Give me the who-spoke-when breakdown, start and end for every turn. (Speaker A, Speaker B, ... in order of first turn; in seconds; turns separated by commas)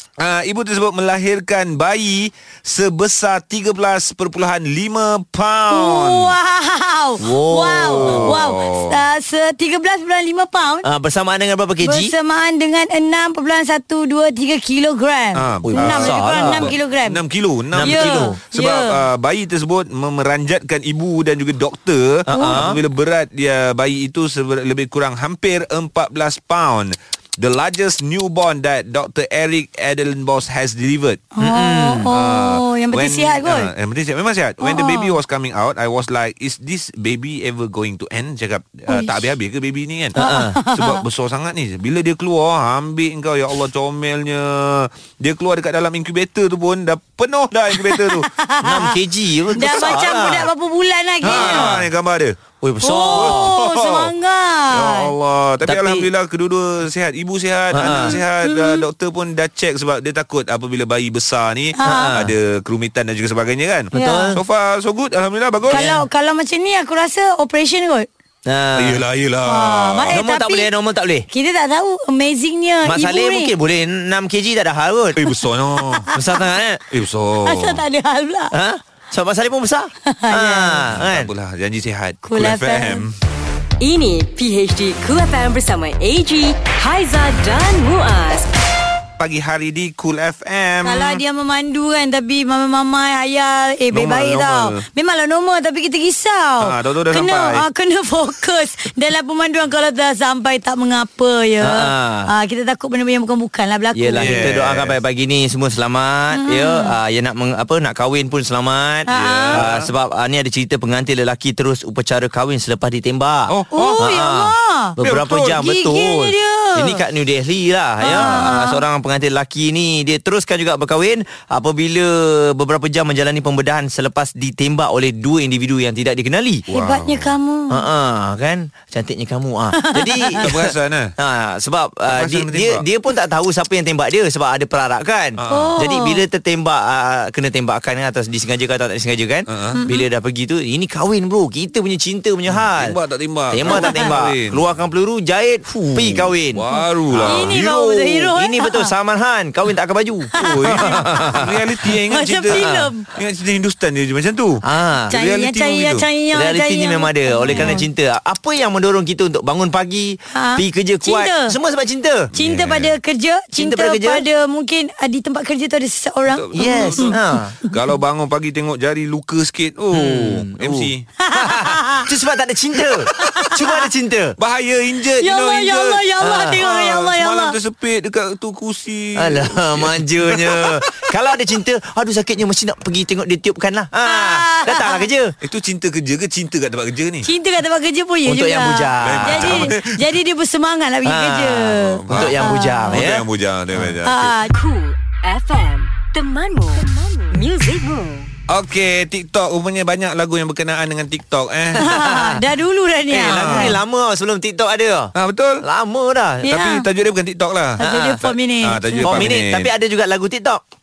Speaker A: 0.2-6.3, Speaker B: 5.7-10.8, Speaker C: 7.2-8.4, Speaker A: 7.9-9.0, Speaker C: 10.8-12.1, Speaker B: 11.8-17.2, Speaker A: 15.3-31.2, Speaker C: 15.7-16.8, Speaker C: 17.7-18.4, Speaker B: 17.8-19.0, Speaker C: 22.3-22.8, Speaker B: 22.3-22.7, Speaker B: 31.4-33.7, Speaker C: 31.4-32.1, Speaker A: 32.1-48.3, Speaker B: 34.6-35.2, Speaker B: 38.9-39.2, Speaker B: 40.1-41.0, Speaker C: 40.2-40.6, Speaker B: 47.7-49.0, Speaker C: 48.6-50.5, Speaker B: 49.5-51.8, Speaker C: 51.2-51.8, Speaker A: 51.2-52.4, Speaker C: 52.6-53.5, Speaker B: 52.8-55.1, Speaker A: 53.0-54.1, Speaker A: 54.7-65.9, Speaker C: 55.6-56.1, Speaker C: 57.7-58.2, Speaker B: 57.8-58.9, Speaker B: 61.8-62.2, Speaker C: 61.8-62.3, Speaker B: 63.9-64.4, Speaker C: 63.9-64.4, Speaker C: 65.7-66.0, Speaker B: 65.7-68.1, Speaker C: 68.5-69.0, Speaker A: 68.7-70.2, Speaker B: 69.4-70.7, Speaker C: 70.1-71.3, Speaker B: 71.3-73.5, Speaker C: 72.8-75.2, Speaker A: 75.2-76.1, Speaker B: 75.8-76.2, Speaker C: 76.1-76.8, Speaker A: 76.9-77.8, Speaker B: 77.4-78.5, Speaker C: 78.5-81.3, Speaker B: 80.2-80.8, Speaker A: 80.9-83.2, Speaker B: 82.2-83.0, Speaker D: 83.8-88.5, Speaker A: 89.2-91.2, Speaker B: 90.8-104.7, Speaker A: 93.9-94.8, Speaker A: 96.6-97.6, Speaker C: 101.6-102.3, Speaker C: 103.9-126.7, Speaker A: 104.2-105.0, Speaker B: 106.3-107.0, Speaker B: 109.1-109.7, Speaker A: 109.1-109.9, Speaker A: 113.5-114.1, Speaker B: 113.7-115.0, Speaker A: 115.0-115.5, Speaker B: 115.5-117.0, Speaker B: 118.0-118.8, Speaker A: 118.0-118.6, Speaker A: 126.7-127.3, Speaker B: 126.7-127.8, Speaker C: 127.7-130.6, Speaker B: 129.7-130.5, Speaker A: 130.4-131.1, Speaker C: 131.2-143.0, Speaker A: 132.1-132.8, Speaker A: 135.4-135.8, Speaker B: 135.5-136.2, Speaker A: 139.5-139.8, Speaker B: 139.7-140.1, Speaker A: 142.5-144.6, Speaker C: 143.5-146.6, Speaker B: 143.6-144.2, Speaker A: 145.9-148.3, Speaker C: 147.2-147.5, Speaker B: 147.2-148.9, Speaker C: 148.3-151.6, Speaker B: 150.3-151.2, Speaker A: 150.3-156.1, Speaker B: 151.9-153.1, Speaker C: 152.5-152.9, Speaker C: 154.6-155.1, Speaker B: 155.1-157.9, Speaker C: 156.3-162.3, Speaker A: 157.5-157.8, Speaker B: 160.3-161.6, Speaker A: 162.3-162.9, Speaker B: 162.3-167.8, Speaker C: 163.6-164.2, Speaker A: 166.2-167.2, Speaker C: 166.6-167.6, Speaker A: 167.7-171.1, Speaker C: 169.9-174.3, Speaker B: 171.2-172.1, Speaker B: 173.4-173.8, Speaker A: 174.4-181.1, Speaker B: 175.2-177.6, Speaker C: 176.2-176.6, Speaker C: 179.2-185.3, Speaker B: 184.0-185.1, Speaker A: 185.4-187.3, Speaker B: 187.2-193.0, Speaker C: 188.2-189.7, Speaker A: 189.0-190.0, Speaker C: 191.0-193.9, Speaker A: 192.0-194.3, Speaker B: 194.0-194.5, Speaker D: 194.5-198.3, Speaker A: 198.5-201.8, Speaker B: 201.7-203.8, Speaker C: 201.8-202.4, Speaker C: 203.1-206.6, Speaker A: 203.2-203.8, Speaker A: 205.2-205.6, Speaker B: 206.4-206.9, Speaker A: 206.5-207.9, Speaker B: 207.8-209.3, Speaker C: 207.8-208.3, Speaker A: 208.6-209.7, Speaker C: 209.0-210.6